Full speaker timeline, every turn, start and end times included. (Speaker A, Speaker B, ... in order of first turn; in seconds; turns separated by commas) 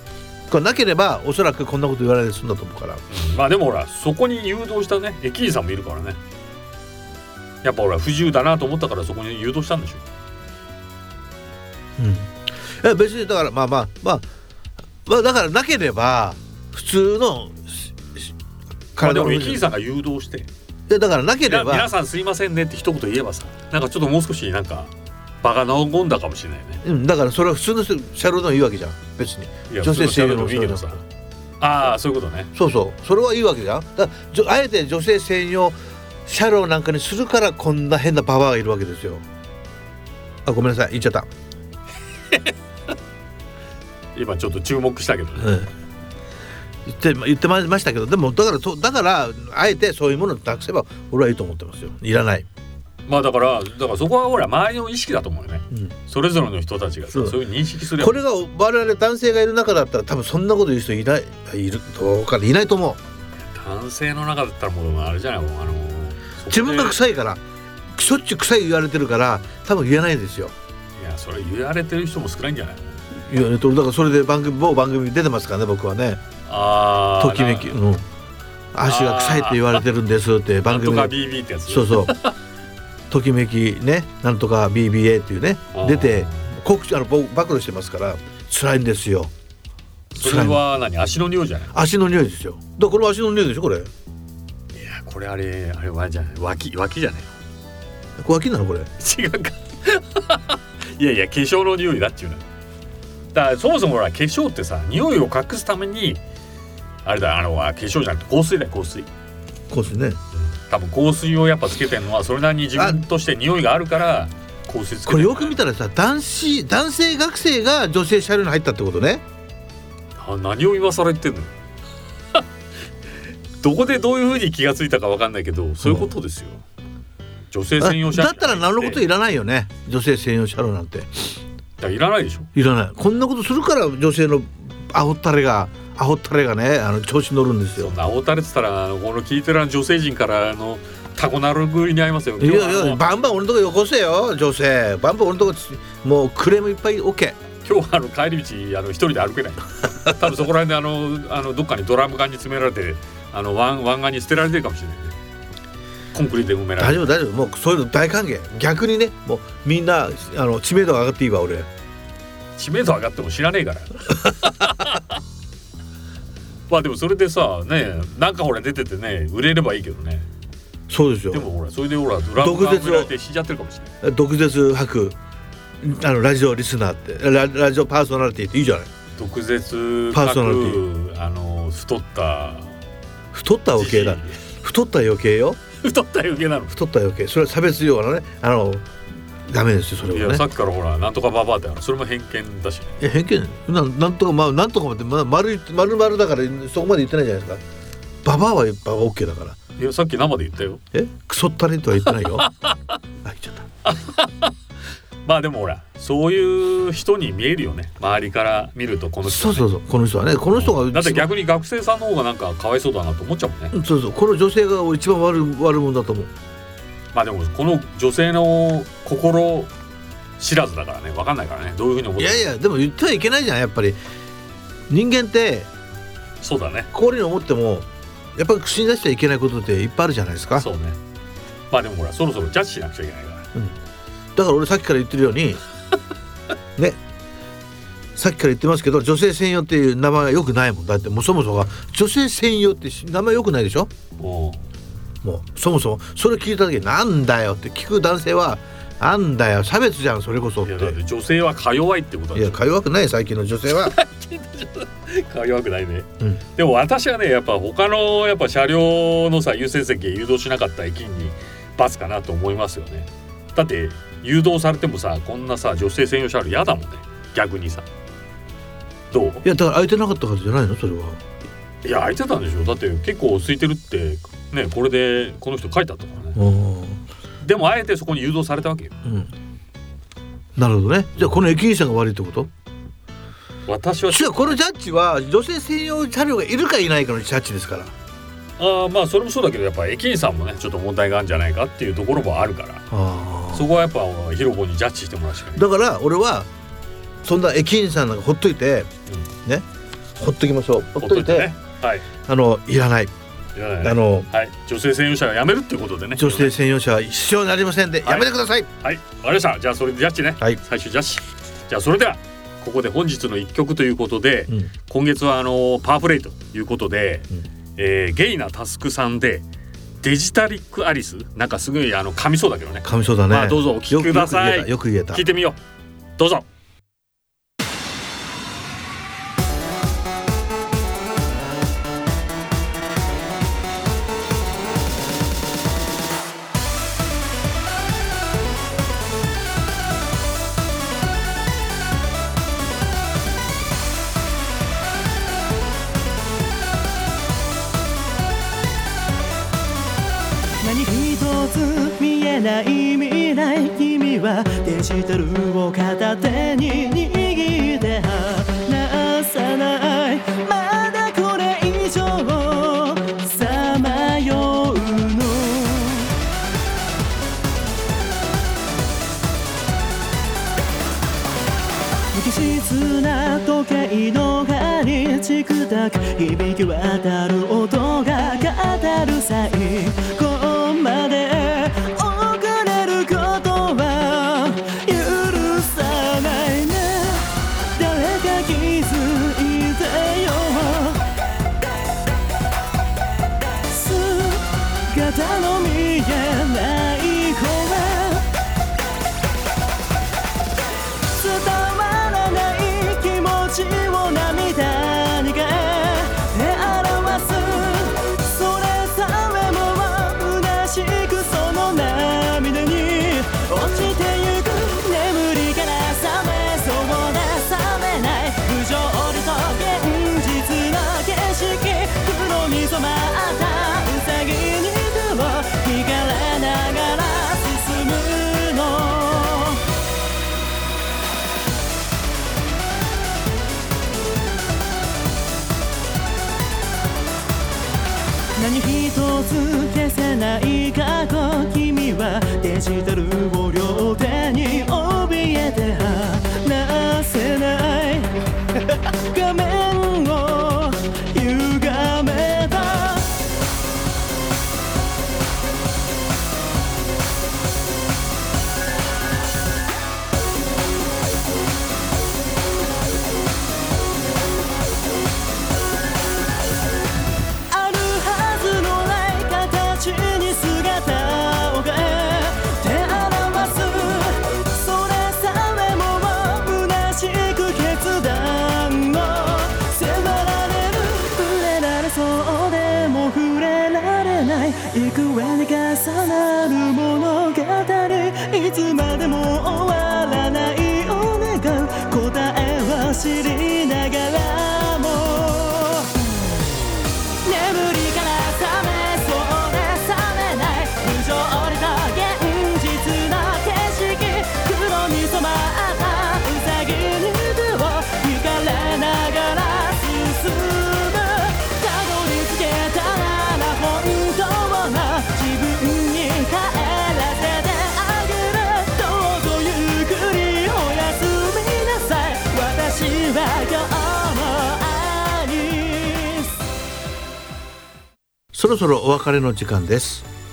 Speaker A: 0.5-3.0, Speaker B: 3.1-6.2, Speaker B: 7.6-10.0, Speaker A: 12.0-14.3, Speaker A: 15.1-18.3, Speaker A: 19.0-19.6, Speaker B: 19.0-20.5, Speaker A: 20.9-21.9, Speaker B: 21.4-26.8, Speaker A: 26.8-31.0, Speaker B: 29.7-31.0, Speaker B: 31.6-32.5, Speaker A: 32.5-39.2, Speaker A: 40.5-41.3, Speaker B: 44.1-45.6, Speaker A: 45.4-45.7, Speaker A: 46.9-52.5, Speaker B: 53.1-58.2, Speaker A: 57.1-57.4, Speaker A: 58.0-63.0, Speaker B: 63.4-67.0, Speaker A: 66.5-67.4, Speaker A: 67.9-70.5, Speaker B: 71.0-73.0, Speaker A: 73.1-76.2, Speaker B: 76.5-77.8, Speaker A: 77.2-78.1, Speaker A: 78.7-81.1, Speaker B: 78.8-79.8, Speaker B: 80.7-82.3, Speaker A: 81.7-82.2, Speaker A: 83.1-89.3, Speaker B: 85.7-86.5, Speaker B: 90.2-91.7, Speaker A: 90.2-90.6, Speaker A: 91.7-93.9, Speaker B: 94.7-97.3, Speaker A: 98.2-98.9, Speaker B: 99.0-102.5, Speaker B: 103.3-106.2, Speaker B: 107.0-109.1, Speaker A: 109.7-110.2, Speaker B: 110.3-115.6, Speaker A: 112.8-113.0, Speaker A: 115.1-119.2, Speaker B: 120.2-121.5, Speaker B: 123.6-126.6, Speaker A: 125.8-126.1, Speaker B: 127.5-129.1, Speaker A: 127.8-131.3, Speaker B: 131.8-132.5, Speaker A: 132.6-137.9, Speaker B: 137.8-143.0, Speaker A: 142.4-147.4, Speaker B: 147.6-155.2, Speaker B: 156.1-157.1, Speaker A: 156.8-161.7, Speaker B: 162.6-165.2, Speaker B: 166.7-170.3, Speaker A: 170.9-171.5, Speaker B: 171.3-173.9, Speaker A: 172.4-173.1, Speaker A: 174.0-175.2, Speaker A: 175.8-178.9, Speaker B: 179.2-182.7, Speaker A: 180.1-180.8, Speaker A: 183.3-185.6, Speaker B: 183.8-184.4, Speaker B: 185.8-186.8, Speaker A: 186.7-188.9, Speaker A: 189.5-190.4, Speaker B: 190.1-193.0, Speaker A: 193.0-197.6, Speaker A: 198.2-199.6, Speaker B: 199.8-200.8, Speaker A: 200.9-202.5, Speaker B: 202.1-203.0, Speaker A: 203.2-203.7, Speaker B: 203.8-204.6, Speaker B: 205.2-209.7, Speaker A: 209.2-211.3, Speaker B: 210.5-213.8, Speaker A: 213.7-216.3, Speaker B: 217.1-219.7, Speaker B: 220.4-222.5, Speaker A: 222.2-224.0, Speaker A: 224.9-225.7, Speaker B: 226.4-226.9, Speaker A: 226.9-230.7, Speaker B: 230.6-231.0, Speaker B: 231.7-233.5, Speaker A: 234.4-235.6, Speaker A: 238.2-243.9, Speaker B: 244.2-244.6, Speaker A: 245.2-251.0, Speaker B: 250.6-252.6, Speaker A: 252.3-253.9, Speaker B: 253.7-267.9, Speaker B: 269.1-269.4, Speaker A: 269.4-271.2, Speaker B: 271.8-276.4, Speaker A: 276.4-277.0, Speaker B: 277.4-279.0, Speaker A: 279.0-279.3, Speaker A: 280.6-282.5, Speaker B: 283.7-284.6, Speaker A: 284.1-287.9, Speaker B: 288.6-292.9, Speaker A: 292.9-293.7, Speaker B: 293.5-295.6, Speaker A: 295.6-296.5, Speaker A: 297.2-298.9, Speaker A: 300.2-301.5, Speaker B: 301.0-302.1, Speaker A: 302.2-303.1, Speaker B: 303.6-306.5, Speaker A: 303.8-304.3, Speaker A: 306.2-308.7, Speaker B: 308.1-319.4, Speaker B: 320.0-325.6, Speaker A: 322.8-325.2, Speaker B: 326.2-326.5, Speaker C: 350.6-366.1, Speaker C: 372.1-391.0, Speaker C: 393.7-398.3, Speaker C: 401.1-429.6, Speaker C: 438.4-453.1, Speaker C: 467.5-495.9, Speaker C: 497.2-526.3, Speaker A: 528.3-530.0